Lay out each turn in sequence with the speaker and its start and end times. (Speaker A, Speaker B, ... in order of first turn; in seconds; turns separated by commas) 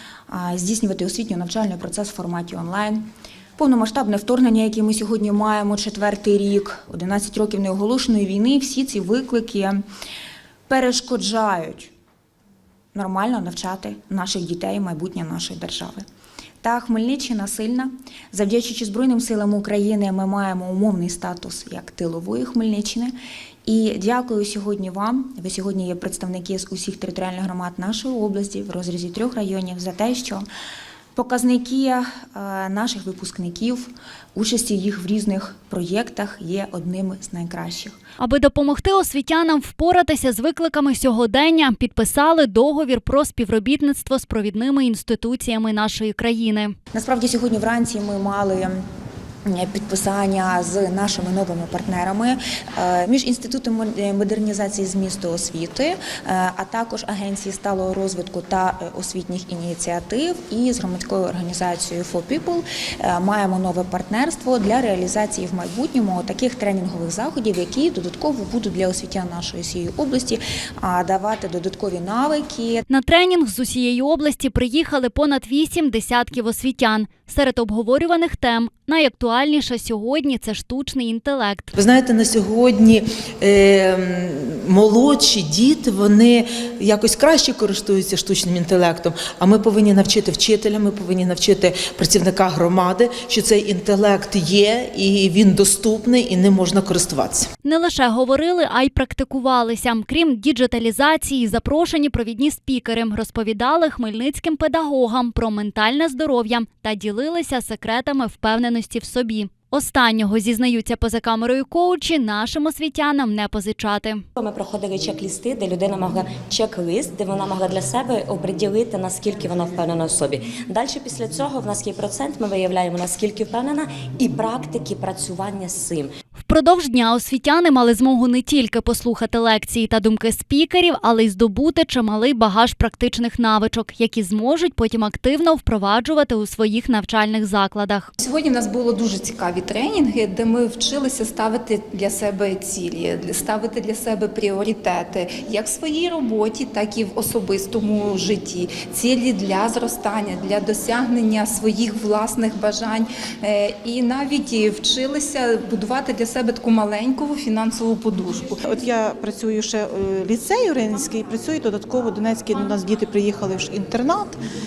Speaker A: 0.3-3.0, Speaker A: 3.6-9.8, Speaker A: 10.7-11.9, Speaker A: 12.9-16.0, Speaker A: 16.6-30.5, Speaker A: 31.1-38.0, Speaker B: 38.2-46.7, Speaker A: 46.9-48.8, Speaker A: 49.5-72.8, Speaker B: 72.9-81.7, Speaker C: 81.8-97.5, Speaker B: 97.6-114.2, Speaker D: 114.4-126.1, Speaker B: 126.4-138.1, Speaker E: 138.2-158.5, Speaker F: 158.7-164.4